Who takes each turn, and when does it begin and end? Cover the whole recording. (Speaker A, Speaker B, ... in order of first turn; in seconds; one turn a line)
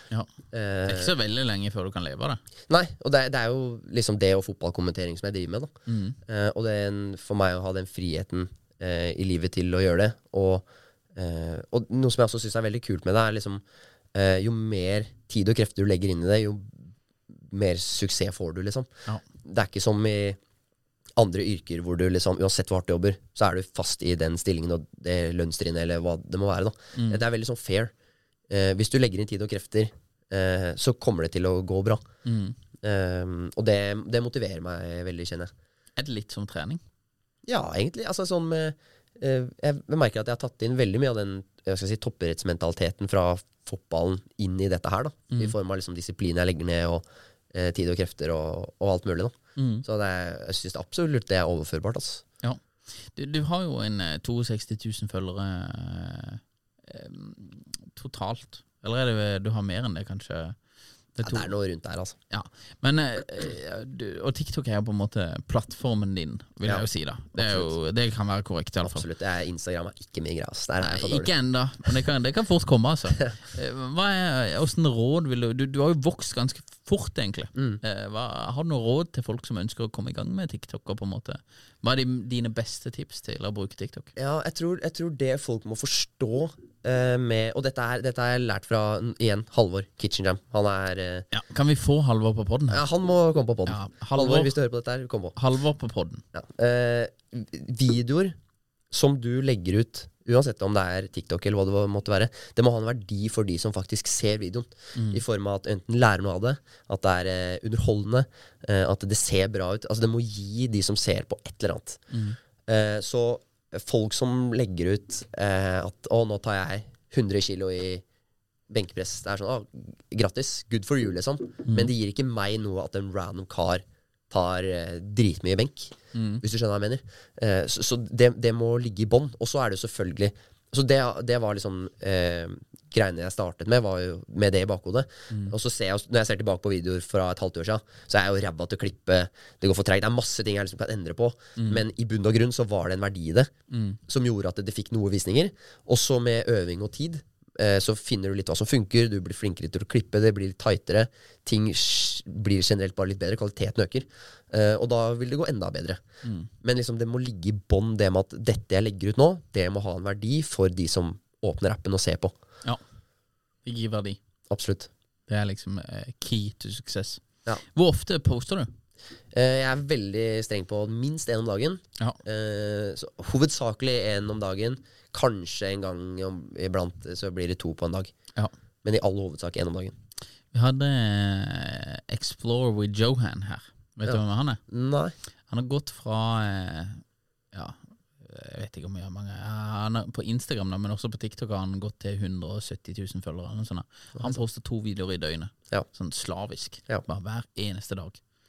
Speaker A: 0.5-1.1
Speaker B: 0.8-2.4
Speaker A: 2.7-5.7
Speaker B: 5.9-6.2
Speaker A: 6.2-13.6
Speaker A: 14.1-16.8
Speaker A: 17.5-18.9
Speaker A: 19.4-20.4
Speaker A: 21.2-27.9
Speaker B: 26.9-27.2
Speaker A: 28.5-32.0
Speaker B: 32.2-32.5
Speaker A: 32.8-35.5
Speaker B: 36.0-36.8
Speaker A: 37.5-52.2
Speaker B: 49.5-49.8
Speaker B: 52.4-60.6
Speaker B: 61.2-61.5
Speaker A: 61.2-62.1
Speaker B: 62.3-69.0
Speaker A: 66.6-67.7
Speaker A: 68.8-71.3
Speaker B: 70.8-84.1
Speaker A: 77.5-77.8
Speaker A: 84.2-91.3
Speaker B: 91.3-92.8
Speaker A: 92.7-95.3
Speaker B: 93.7-94.5
Speaker B: 95.3-96.2
Speaker A: 96.3-98.3
Speaker A: 98.9-112.0
Speaker B: 104.9-105.2
Speaker B: 112.1-112.4
Speaker A: 112.7-118.0
Speaker A: 118.7-143.5
Speaker B: 121.7-121.9
Speaker B: 126.1-126.4
Speaker B: 141.6-141.8
Speaker B: 143.7-144.0
Speaker A: 144.1-156.0
Speaker B: 156.2-156.5
Speaker A: 156.6-162.3
Speaker B: 163.6-164.2
Speaker A: 164.5-164.9
Speaker B: 165.3-167.2
Speaker B: 167.7-168.7
Speaker A: 169.3-178.1
Speaker A: 178.8-179.9
Speaker B: 180.5-184.6
Speaker A: 184.1-185.1
Speaker B: 185.5-198.2